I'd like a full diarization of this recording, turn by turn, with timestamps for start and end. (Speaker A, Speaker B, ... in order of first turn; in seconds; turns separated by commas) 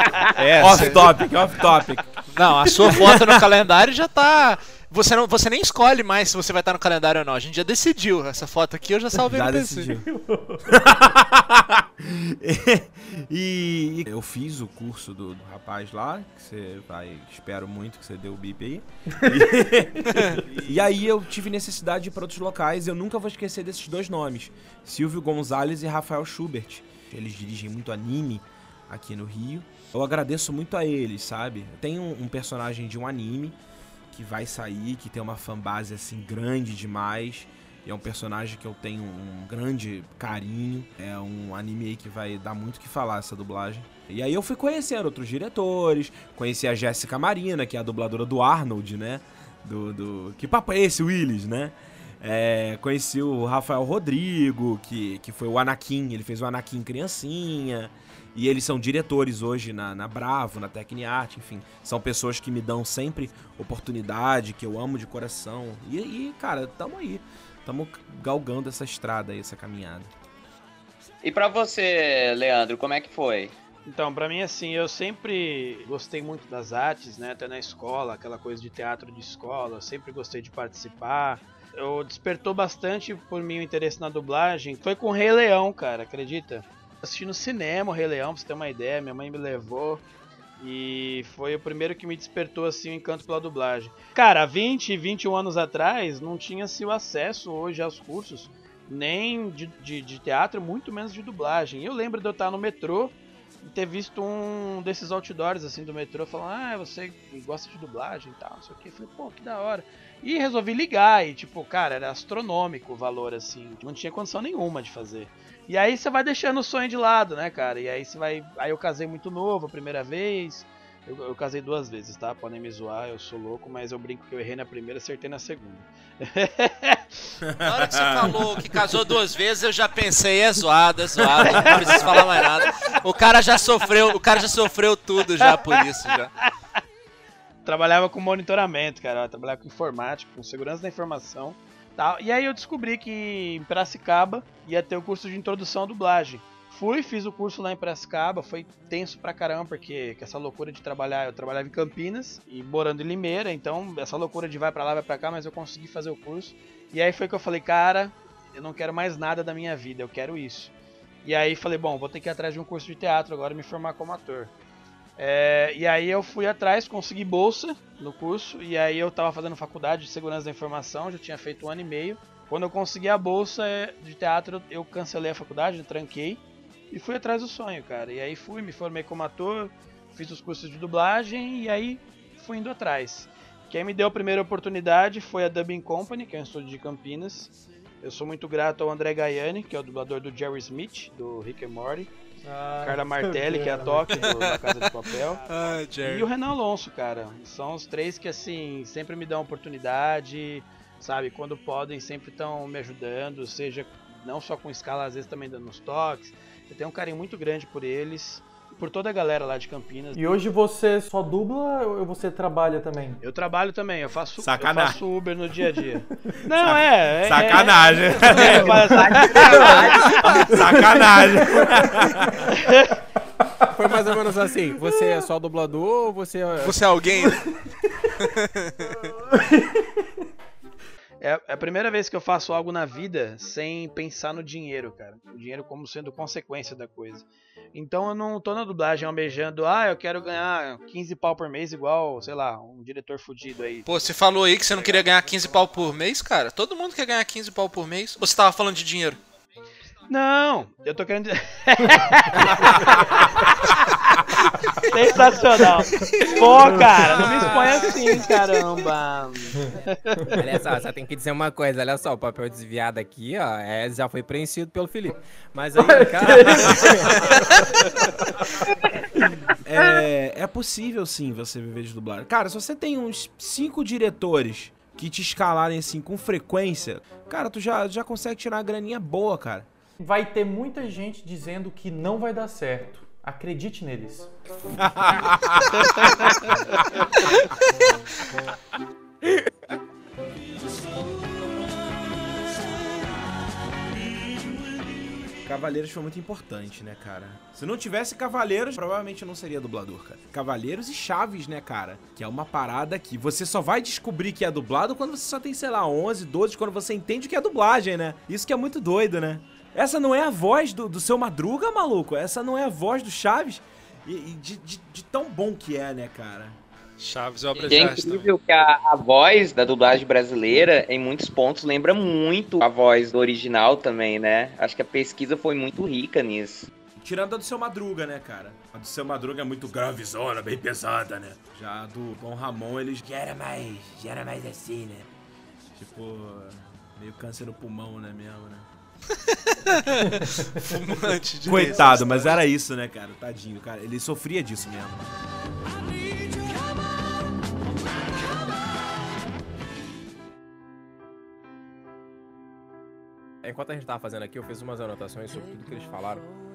Speaker A: 0.4-1.2, Speaker B: 0.4-3.4, Speaker A: 2.3-9.9, Speaker B: 9.2-10.1, Speaker C: 10.1-10.6, Speaker B: 10.6-33.6, Speaker B: 34.1-70.1, Speaker D: 71.2-73.5, Speaker E: 73.8-90.0, Speaker E: 90.6-127.1, Speaker B: 127.4-128.4, Speaker A: 127.6-136.3, Speaker B: 131.4-132.1, Speaker E: 131.4-132.1, Speaker E: 137.6-160.7, Speaker E: 161.2-164.5, Speaker E: 165.2-187.5, Speaker E: 188.0-192.1, Speaker C: 192.4-194.3, Speaker E: 192.8-210.4, Speaker A: 194.3-194.9, Speaker A: 195.5-196.3, Speaker C: 210.1-213.2, Speaker E: 213.2-220.5, Speaker B: 214.4-215.0, Speaker B: 216.4-222.5, Speaker C: 218.3-222.1, Speaker E: 222.6-222.9, Speaker F: 223.7-226.8, Speaker A: 226.6-227.5, Speaker A: 228.2-229.1, Speaker E: 231.2-243.9, Speaker A: 243.8-249.2, Speaker E: 250.1-253.9, Speaker E: 254.9-260.3, Speaker A: 256.0-256.6, Speaker A: 257.3-257.9, Speaker F: 260.3-267.4, Speaker C: 265.8-267.0, Speaker B: 269.6-279.7, Speaker C: 280.0-284.3, Speaker B: 284.8-286.3, Speaker B: 295.4-316.6, Speaker A: 317.0-318.3, Speaker D: 317.5-326.7, Speaker B: 327.0-335.1, Speaker B: 335.7-338.7, Speaker A: 339.6-342.4, Speaker B: 341.4-345.0, Speaker F: 353.4-356.2